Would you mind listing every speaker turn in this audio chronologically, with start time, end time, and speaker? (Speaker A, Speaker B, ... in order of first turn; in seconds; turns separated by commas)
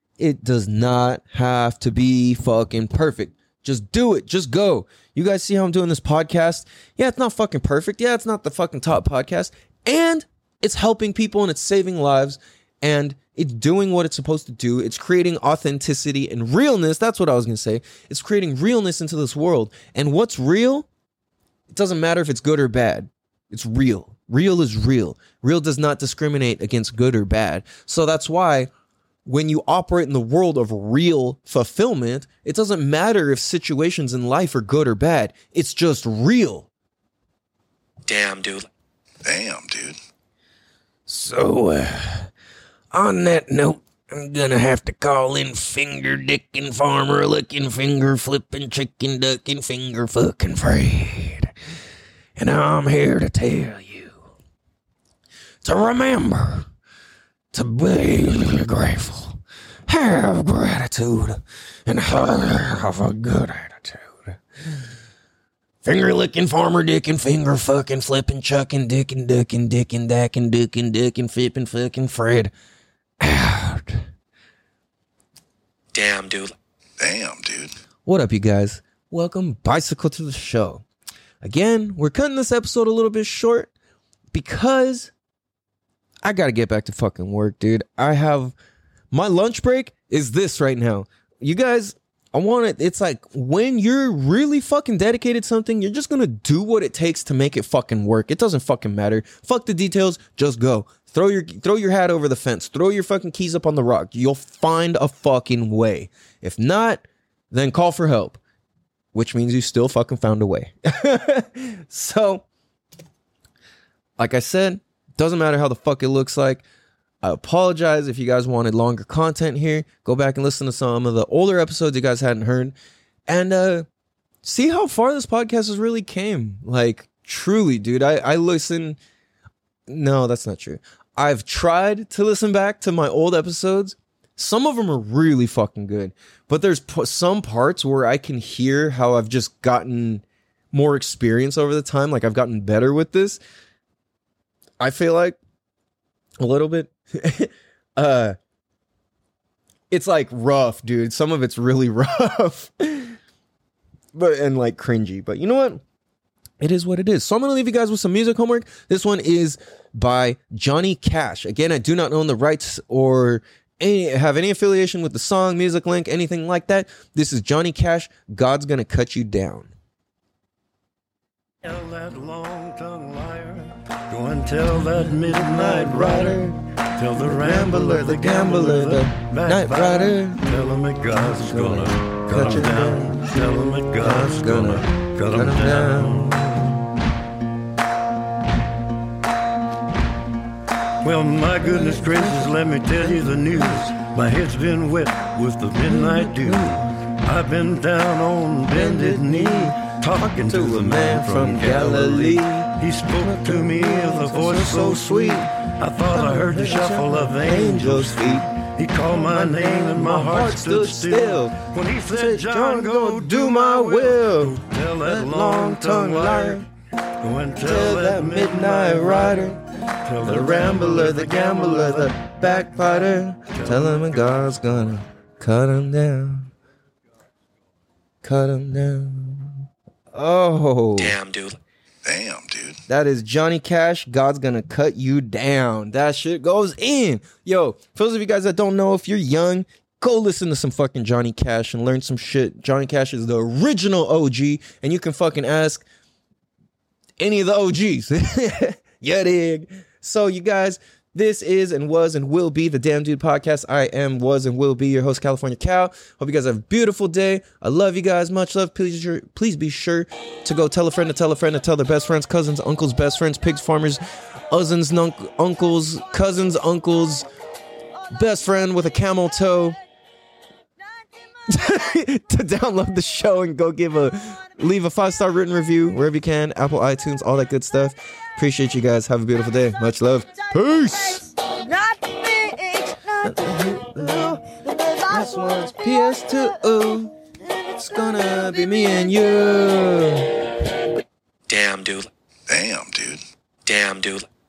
Speaker A: 0.2-20.9, Speaker A: 21.7-28.7, Speaker A: 29.2-36.7, Speaker B: 38.0-38.7, Speaker C: 39.2-40.0, Speaker A: 41.1-42.3, Speaker A: 42.9-51.5, Speaker A: 52.4-54.2, Speaker A: 55.6-56.7, Speaker A: 57.5-64.4, Speaker A: 65.8-72.5, Speaker A: 73.2-74.0, Speaker B: 75.9-76.5, Speaker C: 77.0-77.7, Speaker A: 78.0-80.8, Speaker A: 81.4-83.7, Speaker A: 84.3-85.1, Speaker A: 86.2-88.5, Speaker A: 89.1-108.4, Speaker A: 109.1-112.4, Speaker A: 114.2-116.6, Speaker A: 117.2-122.7, Speaker A: 123.3-123.8, Speaker A: 124.4-129.0, Speaker A: 129.9-143.4, Speaker A: 144.8-145.4, Speaker A: 146.4-148.3, Speaker A: 149.9-153.1, Speaker A: 154.1-155.8, Speaker A: 156.6-169.7, Speaker D: 171.6-176.4, Speaker A: 175.0-176.6, Speaker D: 176.9-186.4, Speaker A: 177.2-180.4, Speaker A: 181.2-183.3, Speaker A: 184.0-186.9, Speaker D: 191.0-216.6, Speaker A: 191.6-194.0, Speaker A: 195.8-196.9, Speaker A: 198.7-208.5, Speaker A: 209.1-216.7, Speaker D: 217.2-224.0, Speaker A: 217.6-219.6, Speaker A: 220.2-226.5, Speaker A: 228.2-229.6, Speaker A: 230.1-231.1, Speaker B: 231.0-231.6, Speaker C: 232.0-232.8, Speaker A: 232.9-245.8, Speaker A: 247.2-267.2, Speaker A: 268.1-269.8, Speaker A: 271.5-290.4, Speaker B: 291.5-292.1, Speaker C: 292.5-293.2, Speaker B: 293.6-294.3